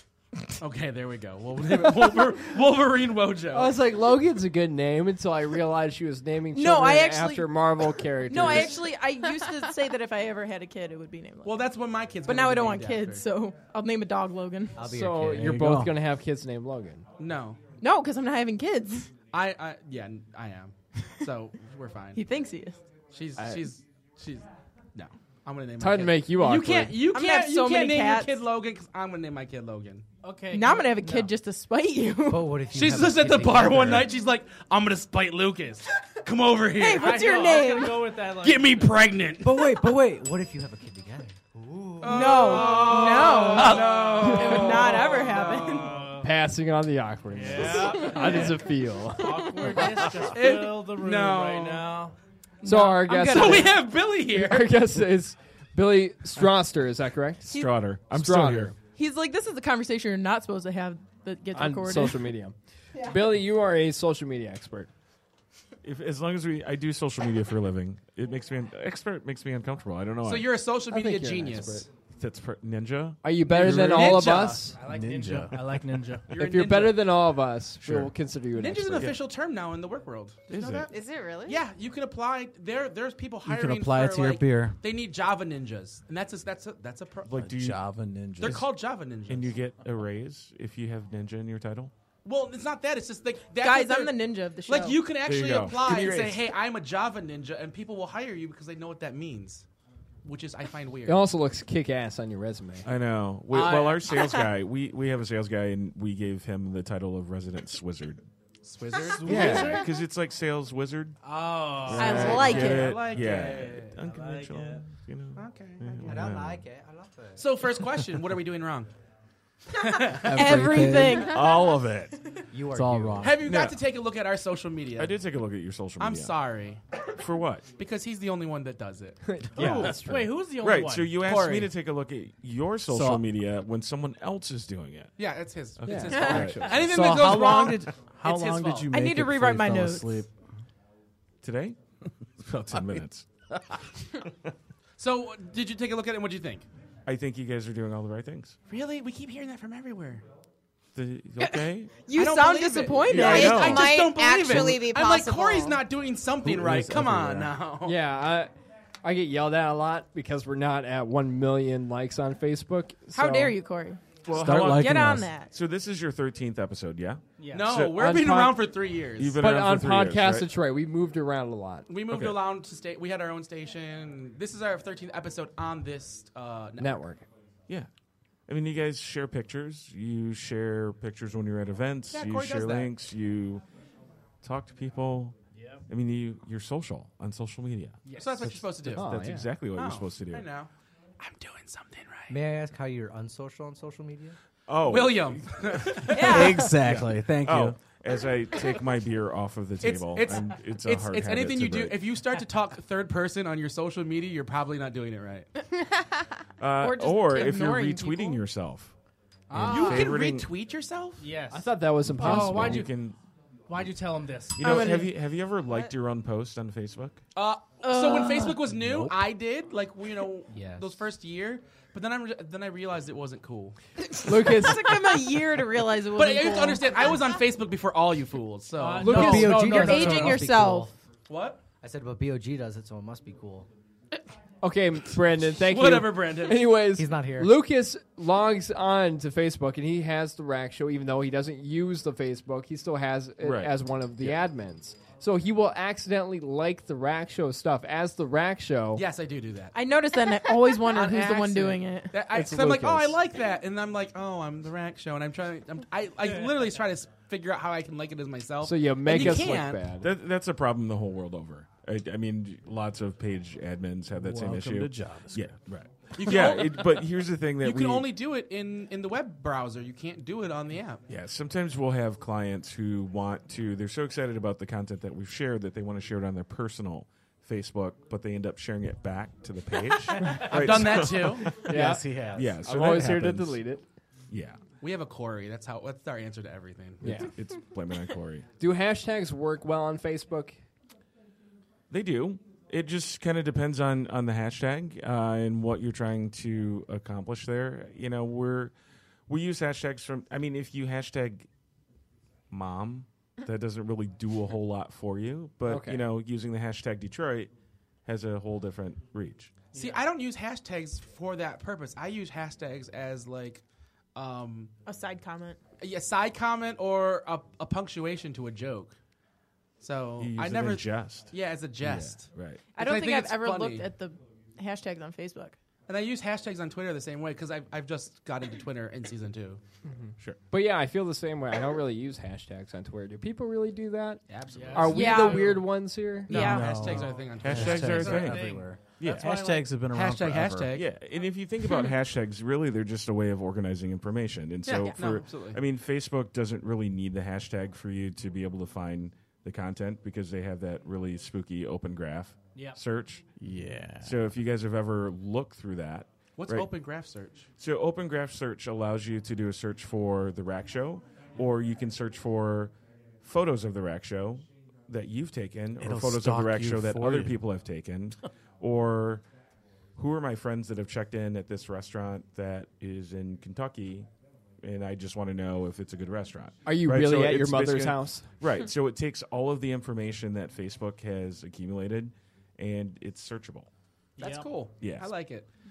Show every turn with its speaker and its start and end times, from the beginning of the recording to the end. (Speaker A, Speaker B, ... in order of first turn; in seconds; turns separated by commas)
Speaker A: 0.6-3.8, Speaker B: 3.5-8.8, Speaker C: 6.5-11.7, Speaker A: 11.4-13.3, Speaker C: 12.2-14.9, Speaker D: 14.8-15.7, Speaker B: 14.8-17.0, Speaker E: 15.3-16.0, Speaker A: 17.2-17.6, Speaker C: 17.8-19.1, Speaker A: 19.3-22.2, Speaker C: 22.1-22.8, Speaker A: 23.1-30.1, Speaker B: 25.8-27.0, Speaker C: 27.1-28.4, Speaker F: 30.2-31.3, Speaker C: 30.5-32.5, Speaker D: 32.3-34.1, Speaker A: 32.7-37.5, Speaker C: 36.8-38.1, Speaker F: 36.9-38.9, Speaker A: 38.4-39.9, Speaker D: 39.4-42.3, Speaker A: 42.0-46.0, Speaker C: 42.0-46.0, Speaker F: 45.8-46.3, Speaker B: 46.2-49.5, Speaker F: 47.3-52.1, Speaker A: 50.2-51.9, Speaker C: 52.6-53.8, Speaker B: 52.6-58.8, Speaker A: 53.1-54.9, Speaker G: 57.4-58.8, Speaker C: 58.8-62.3, Speaker B: 61.5-64.9, Speaker G: 65.8-70.6, Speaker A: 70.2-71.9, Speaker B: 70.9-71.9, Speaker G: 72.2-74.4, Speaker B: 73.2-74.8, Speaker F: 73.6-76.3, Speaker E: 74.8-75.8, Speaker A: 76.3-77.1, Speaker B: 76.3-79.1, Speaker G: 77.8-78.2, Speaker A: 78.5-80.9, Speaker G: 80.5-80.9, Speaker H: 80.9-81.6, Speaker A: 81.5-87.4, Speaker E: 83.5-84.8, Speaker G: 87.3-88.7, Speaker E: 87.3-88.6, Speaker A: 88.4-89.6, Speaker G: 89.3-91.9, Speaker A: 92.2-99.7, Speaker C: 93.6-95.1, Speaker G: 95.2-96.5, Speaker A: 100.2-101.3, Speaker B: 101.1-102.9, Speaker G: 102.8-108.2, Speaker A: 103.5-104.1, Speaker A: 108.6-109.8, Speaker F: 109.1-109.9, Speaker B: 109.2-109.8, Speaker G: 109.3-116.6, Speaker F: 111.2-112.6, Speaker C: 112.0-113.0, Speaker A: 112.0-113.9, Speaker F: 114.0-114.8, Speaker A: 115.4-116.2, Speaker D: 116.0-117.5, Speaker A: 117.4-118.9, Speaker A: 119.8-120.6, Speaker E: 120.2-121.3, Speaker C: 120.3-121.5, Speaker G: 121.2-122.2, Speaker D: 122.5-123.5, Speaker E: 122.7-123.4, Speaker A: 123.2-125.2, Speaker G: 123.4-123.8, Speaker G: 125.0-126.4, Speaker A: 126.0-126.8, Speaker G: 127.2-127.7, Speaker A: 127.8-130.0, Speaker B: 129.3-130.3, Speaker F: 129.6-131.2, Speaker G: 129.6-135.1, Speaker A: 131.2-131.7, Speaker A: 135.2-138.9, Speaker G: 135.8-136.9, Speaker B: 135.8-136.7, Speaker C: 136.1-136.4, Speaker E: 136.7-140.3, Speaker C: 138.9-140.2, Speaker G: 141.4-141.8, Speaker G: 142.4-143.3, Speaker A: 145.0-146.7, Speaker G: 147.1-148.6, Speaker A: 148.7-150.2, Speaker G: 150.9-152.1, Speaker C: 151.4-153.8, Speaker A: 152.1-158.0, Speaker G: 153.1-154.8, Speaker H: 153.2-155.8, Speaker E: 156.4-157.5, Speaker B: 157.8-158.5, Speaker B: 159.0-163.6, Speaker C: 163.1-165.5, Speaker G: 164.2-168.1, Speaker E: 164.3-165.3, Speaker F: 167.4-167.8, Speaker A: 167.5-169.4, Speaker B: 167.9-168.6, Speaker G: 169.2-170.5, Speaker B: 169.4-171.9, Speaker A: 171.9-177.0, Speaker G: 172.1-172.4, Speaker B: 176.8-177.2, Speaker G: 178.5-183.6, Speaker A: 182.1-182.9, Speaker G: 184.4-185.3, Speaker F: 185.6-185.8, Speaker G: 185.9-190.5, Speaker F: 188.1-188.6, Speaker A: 188.2-189.1, Speaker B: 188.9-189.5, Speaker A: 189.7-192.3, Speaker D: 192.3-194.3, Speaker G: 194.7-202.0, Speaker A: 194.9-196.7, Speaker C: 196.2-196.5, Speaker E: 196.2-197.8, Speaker A: 199.8-205.5, Speaker G: 206.6-208.9, Speaker C: 206.8-208.4, Speaker F: 209.5-210.0, Speaker G: 209.5-210.5, Speaker A: 209.6-211.3, Speaker F: 211.2-213.0, Speaker B: 211.5-212.9, Speaker G: 212.1-213.2, Speaker F: 213.7-214.8, Speaker G: 214.6-217.2, Speaker C: 214.6-215.1, Speaker A: 217.3-223.8, Speaker C: 217.8-218.6, Speaker D: 220.5-220.9, Speaker B: 224.2-224.9, Speaker C: 224.3-227.2, Speaker A: 226.1-230.3, Speaker F: 228.8-230.5, Speaker B: 229.1-229.6, Speaker D: 229.2-230.9, Speaker C: 229.7-230.9, Speaker A: 231.3-231.6, Speaker D: 231.8-233.7, Speaker B: 234.6-249.0, Speaker A: 235.6-236.8, Speaker D: 236.9-237.6, Speaker G: 243.4-244.5, Speaker A: 248.9-249.8, Speaker C: 249.7-252.2, Speaker A: 250.8-259.9, Speaker B: 252.2-253.2, Speaker B: 258.6-260.1, Speaker G: 259.1-268.1, Speaker E: 264.1-265.5, Speaker A: 266.1-271.0, Speaker G: 271.1-281.7, Speaker F: 280.3-280.5, Speaker A: 280.3-281.6, Speaker E: 281.6-282.5, Speaker B: 281.6-283.8, Speaker G: 282.3-283.6, Speaker G: 284.3-284.6, Speaker A: 284.8-287.3, Speaker G: 287.0-288.5, Speaker B: 287.0-287.3, Speaker B: 288.6-290.6, Speaker G: 291.9-298.7, Speaker G: 299.3-301.5, Speaker G: 302.5-307.5, Speaker B: 305.7-306.0, Speaker G: 308.1-309.5, Speaker F: 309.7-310.0, Speaker A: 309.8-313.6, Speaker A: 314.1-314.7, Speaker C: 314.9-315.6, Speaker A: 315.8-318.9, Speaker A: 319.8-323.9, Speaker G: 320.2-322.8, Speaker C: 322.8-325.6, Speaker A: 325.9-329.6, Speaker B: 329.9-336.4, Speaker A: 334.3-335.5, Speaker F: 334.5-335.6, Speaker C: 334.8-335.6, Speaker A: 336.3-340.9, Speaker C: 336.3-336.8, Speaker E: 336.3-340.8, Speaker F: 336.9-337.4, Speaker G: 337.4-339.3, Speaker F: 338.0-339.4, Speaker G: 340.7-353.2, Speaker A: 344.7-345.6, Speaker F: 352.6-352.8, Speaker E: 353.4-354.2, Speaker G: 354.0-356.7, Speaker A: 356.4-357.5, Speaker G: 357.6-369.2, Speaker E: 365.8-367.4, Speaker G: 370.0-374.1, Speaker G: 374.6-383.7, Speaker B: 376.6-378.3, Speaker F: 384.2-384.7, Speaker A: 384.2-385.5, Speaker G: 384.8-385.1